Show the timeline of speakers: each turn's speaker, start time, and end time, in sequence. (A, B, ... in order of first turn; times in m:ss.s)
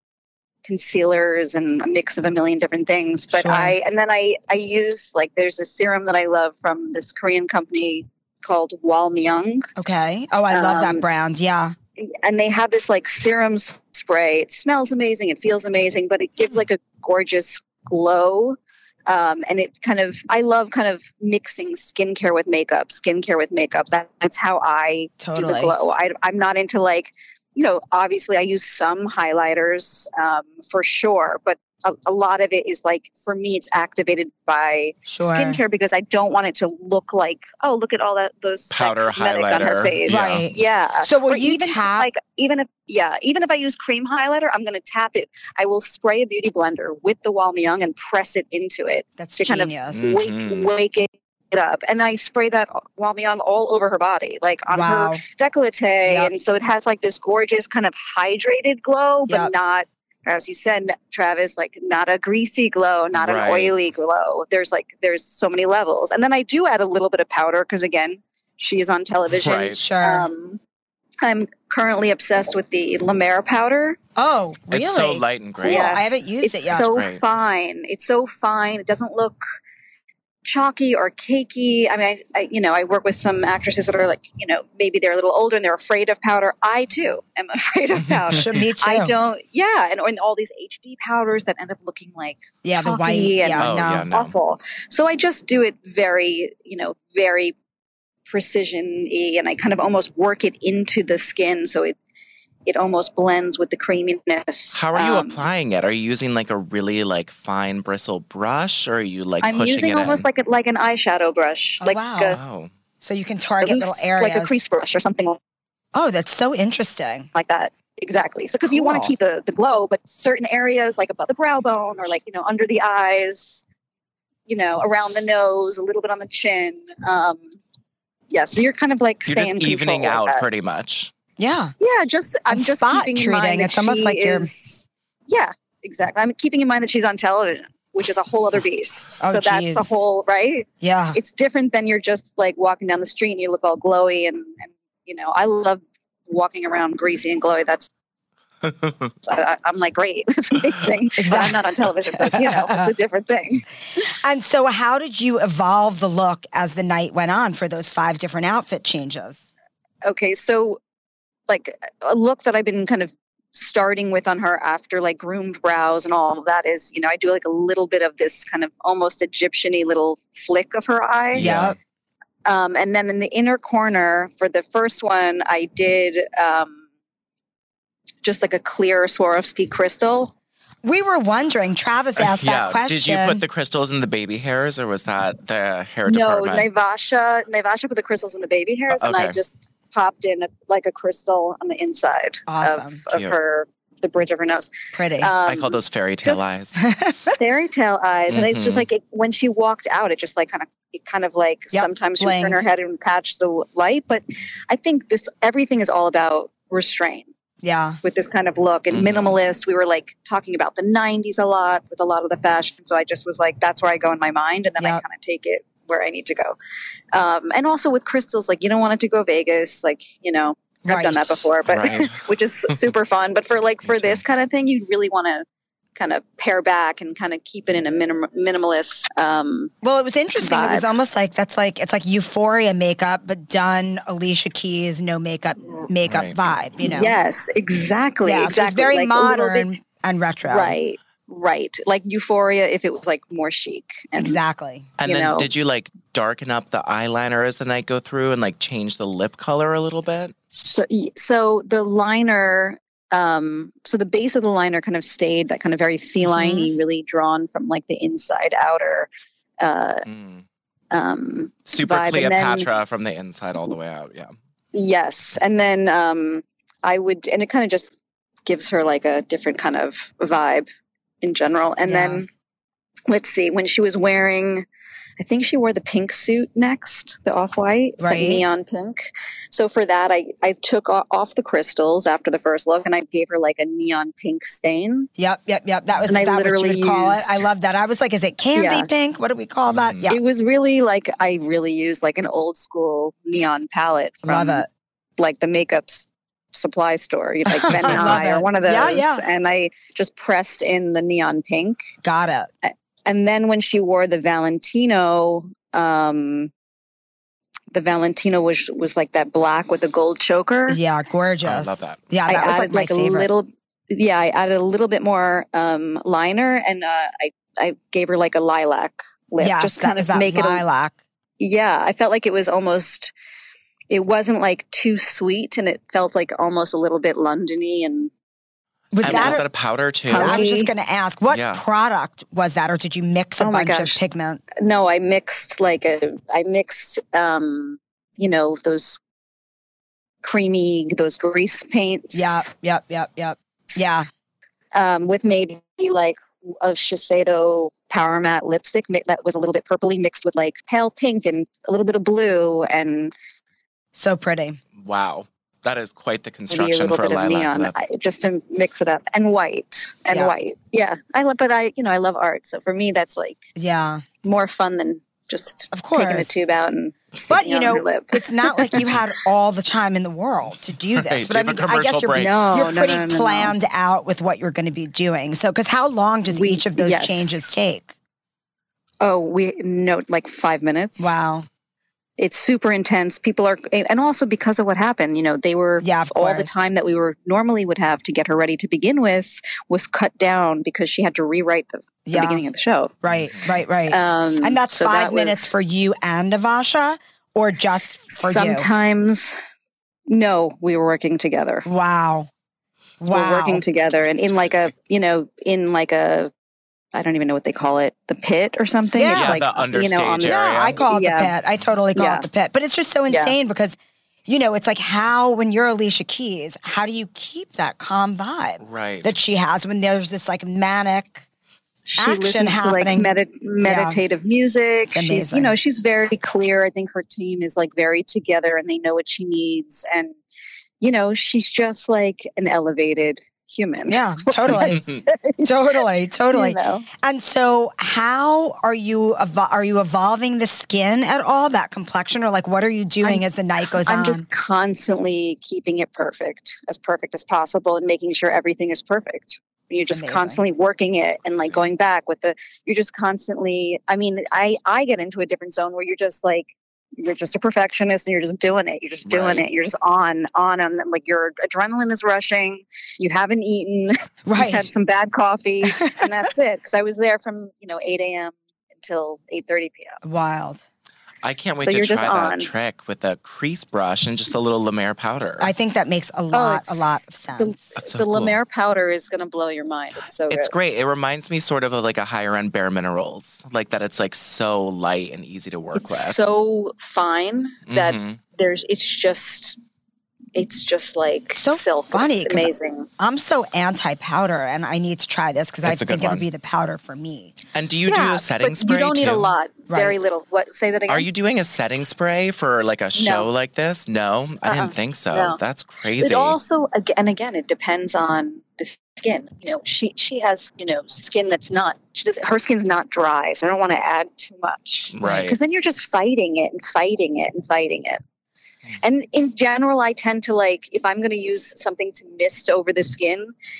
0:00.6-0:09.7 A
0:03.3-0:03.8 B
0:09.8-0:11.8 B
0:10.5-0:11.0 A
0:12.0-1:10.6 A
0:25.2-0:25.8 B
0:35.1-0:35.6 B
0:38.7-0:40.5 C
0:40.1-0:42.1 B
0:49.2-0:50.0 B
0:49.9-0:50.7 C
0:54.7-0:55.2 B
0:56.0-0:56.3 B
1:03.1-1:03.7 C
1:09.3-1:09.8 C
1:09.7-1:10.3 B
1:11.2-1:14.0 A
1:14.2-1:16.9 B
1:14.7-1:16.2 C
1:15.6-1:19.4 A
1:16.7-1:17.2 C
1:20.4-1:37.5 A
1:28.1-1:28.4 C
1:28.3-1:29.1 B
1:32.6-1:34.1 B
1:33.6-1:34.3 C
1:38.3-1:42.0 A
1:42.7-1:45.4 A
1:44.7-1:50.2 C
1:49.4-1:52.4 A
1:51.8-1:52.4 B
1:52.3-1:52.7 C
1:53.0-1:54.6 B
1:53.6-1:55.4 A
1:55.9-1:57.3 B
1:57.4-2:03.6 A
1:58.7-1:59.1 B
2:04.5-2:07.4 A
2:08.3-2:10.4 A
2:09.3-2:11.1 C
2:11.4-2:11.7 B
2:11.8-2:27.9 A
2:12.5-2:14.5 B
2:19.2-2:20.0 B
2:20.8-2:21.2 B
2:28.6-2:29.1 C
2:29.2-2:33.6 A
2:31.2-2:31.6 B
2:32.1-2:32.9 B
2:34.1-2:39.5 B
2:40.0-2:40.8 A
2:41.5-2:51.5 A
2:51.3-2:51.8 C
2:51.4-2:51.8 B
2:52.5-2:56.8 A
2:58.2-3:00.3 A
3:00.8-3:03.4 B
3:02.2-3:06.7 C
3:06.1-3:16.5 A
3:08.9-3:09.4 C
3:12.5-3:13.0 B
3:14.9-3:15.3 B
3:15.4-3:16.8 C
3:16.8-3:17.4 B
3:17.4-3:27.3 A
3:18.3-3:18.9 C
3:21.7-3:22.6 B
3:27.6-3:28.0 B
3:28.0-3:36.6 A
3:28.9-3:29.4 C
3:34.8-3:35.0 B
3:37.1-3:45.4 A
3:40.8-3:41.5 B
3:41.7-3:42.9 C
3:43.8-3:44.2 C
3:46.0-3:49.7 A
3:49.8-3:57.2 B
3:50.4-3:50.9 A
3:56.0-3:56.5 C
3:56.8-3:59.7 A
3:58.2-4:00.8 B
4:00.5-4:04.4 A
4:04.2-4:04.9 B
4:05.0-4:10.3 C
4:05.0-4:05.5 A
4:10.5-4:19.1 A
4:16.2-4:16.7 B
4:19.6-4:20.0 A
4:20.1-4:20.4 C
4:20.9-4:22.7 A
4:21.7-4:24.3 C
4:24.7-4:27.9 A
4:28.5-4:30.7 A
4:31.2-4:32.3 A
4:31.8-4:32.2 B
4:33.1-4:34.7 A
4:35.2-4:45.1 A
4:38.0-4:38.4 B
4:45.2-4:50.2 B
4:45.9-4:46.2 C
4:46.1-4:47.4 A
4:48.6-4:48.9 A
4:49.7-4:50.1 C
4:50.1-4:54.7 A
4:54.2-4:54.7 B
4:55.2-5:01.8 A
4:57.5-4:59.2 B
4:57.9-4:58.2 C
5:02.0-5:02.5 B
5:02.6-5:06.5 A
5:07.7-5:10.8 A
5:10.7-5:13.3 B
5:11.4-5:12.0 C
5:12.3-5:20.6 A
5:19.4-5:21.0 B
5:21.4-5:23.1 A
5:23.9-5:28.1 A
5:28.9-5:29.4 B
5:29.0-5:30.5 C
5:29.0-5:29.4 A
5:30.1-5:30.7 A
5:30.1-5:34.4 B
5:31.3-5:31.6 C
5:33.4-5:34.0 A
5:34.6-5:39.0 A
5:40.2-5:42.5 A
5:42.1-5:44.1 B
5:44.7-5:53.1 A
5:54.0-5:54.6 B
5:54.8-5:57.8 C
5:56.5-6:03.4 A
6:03.6-6:04.0 B
6:04.2-6:08.9 A
6:05.7-6:06.4 B
6:07.3-6:17.9 B
6:11.0-6:12.4 C
6:12.2-6:13.6 A
6:16.3-6:17.4 A
6:19.0-6:21.2 A
6:21.0-6:21.5 B
6:22.2-6:32.9 A
6:25.8-6:26.6 B
6:32.1-6:32.4 B
6:33.0-6:38.7 B
6:33.1-6:33.6 C
6:33.9-6:35.6 A
6:38.1-6:39.4 A
6:40.1-6:41.7 A
6:41.7-6:42.3 B
6:43.0-6:43.6 B
6:43.1-6:46.3 A
6:46.9-6:51.3 A
6:49.0-6:49.4 B
6:49.1-6:50.8 C
6:50.2-7:01.2 B
6:52.0-6:52.3 A
6:53.1-6:53.3 A
6:58.6-6:59.1 C
7:01.9-7:10.2 A
7:02.0-7:03.1 B
7:03.6-7:04.0 B
7:04.9-7:05.6 B
7:10.8-7:15.5 A
7:13.9-7:14.8 B
7:14.5-7:15.0 C
7:15.4-7:24.2 B
7:16.3-7:16.9 A
7:23.8-7:50.0 A
7:29.9-7:30.4 B
7:39.1-7:39.5 C
7:44.3-7:44.7 B
7:45.7-7:46.1 B
7:50.0-7:50.6 B
7:51.2-7:55.5 C
7:51.6-7:52.5 A
7:55.4-7:57.7 B
7:56.3-8:00.5 A
7:57.8-7:58.4 C
8:00.3-8:06.2 C
8:05.8-8:09.6 A
8:07.7-8:08.2 C
8:10.4-8:12.9 A
8:11.4-8:17.4 B
8:15.6-8:16.3 C
8:17.5-8:19.3 C
8:17.9-8:21.1 A
8:19.7-8:20.0 B
8:20.9-8:26.4 C
8:23.0-8:23.3 A
8:24.5-8:25.4 A
8:26.0-8:38.0 A
8:34.9-8:35.4 C
8:38.8-8:43.3 A